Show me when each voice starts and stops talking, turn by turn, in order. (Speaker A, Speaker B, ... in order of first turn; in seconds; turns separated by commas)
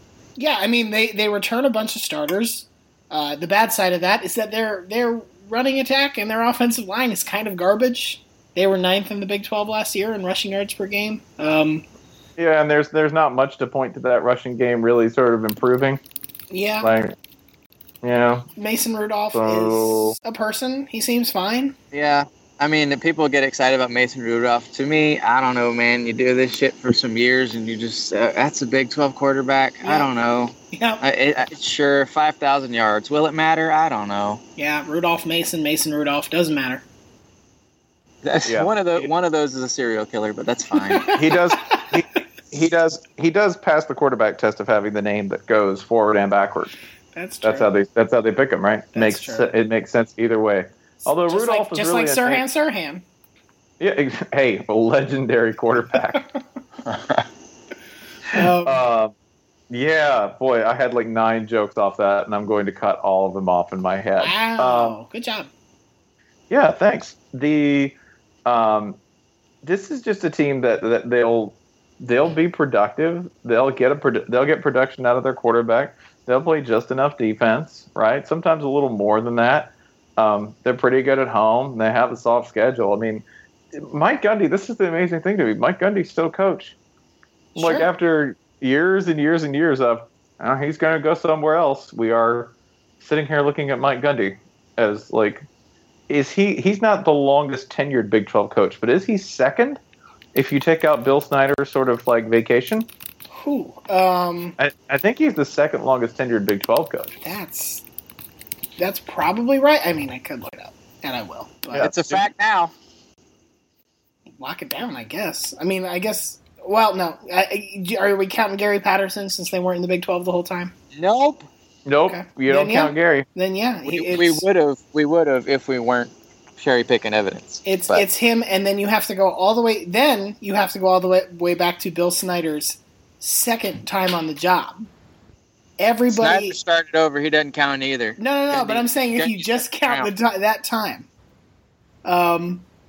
Speaker A: 0.4-11.8, Speaker B: 12.4-16.0, Speaker A: 16.5-16.9, Speaker B: 16.8-17.1, Speaker B: 18.0-18.5, Speaker A: 18.6-21.7, Speaker B: 19.3-20.1, Speaker C: 21.9-34.4, Speaker A: 29.8-30.1, Speaker A: 30.7-31.0, Speaker A: 34.6-36.8, Speaker C: 38.2-41.1, Speaker B: 38.5-39.1, Speaker A: 40.9-41.8, Speaker B: 41.1-46.7, Speaker A: 47.1-47.7, Speaker B: 47.4-52.4, Speaker A: 48.9-49.5, Speaker A: 51.0-53.0, Speaker B: 53.8-56.2, Speaker C: 56.9-57.2, Speaker A: 58.3-58.8, Speaker B: 58.3-59.1, Speaker B: 59.7-65.0, Speaker A: 64.2-65.5, Speaker B: 66.5-67.9, Speaker B: 68.5-69.0, Speaker B: 69.6-86.7, Speaker A: 87.5-87.9, Speaker B: 87.5-95.5, Speaker B: 96.1-99.8, Speaker B: 100.3-102.9, Speaker A: 103.4-104.6, Speaker B: 104.6-107.1, Speaker A: 107.2-107.8, Speaker A: 108.8-111.9, Speaker B: 111.7-112.2, Speaker C: 111.8-112.7, Speaker A: 114.4-120.7, Speaker C: 120.9-121.5, Speaker B: 121.8-123.2, Speaker A: 122.1-124.4, Speaker C: 123.8-128.1, Speaker A: 127.6-134.9, Speaker A: 135.8-136.6, Speaker C: 136.1-140.1, Speaker A: 138.2-141.1, Speaker A: 142.0-142.6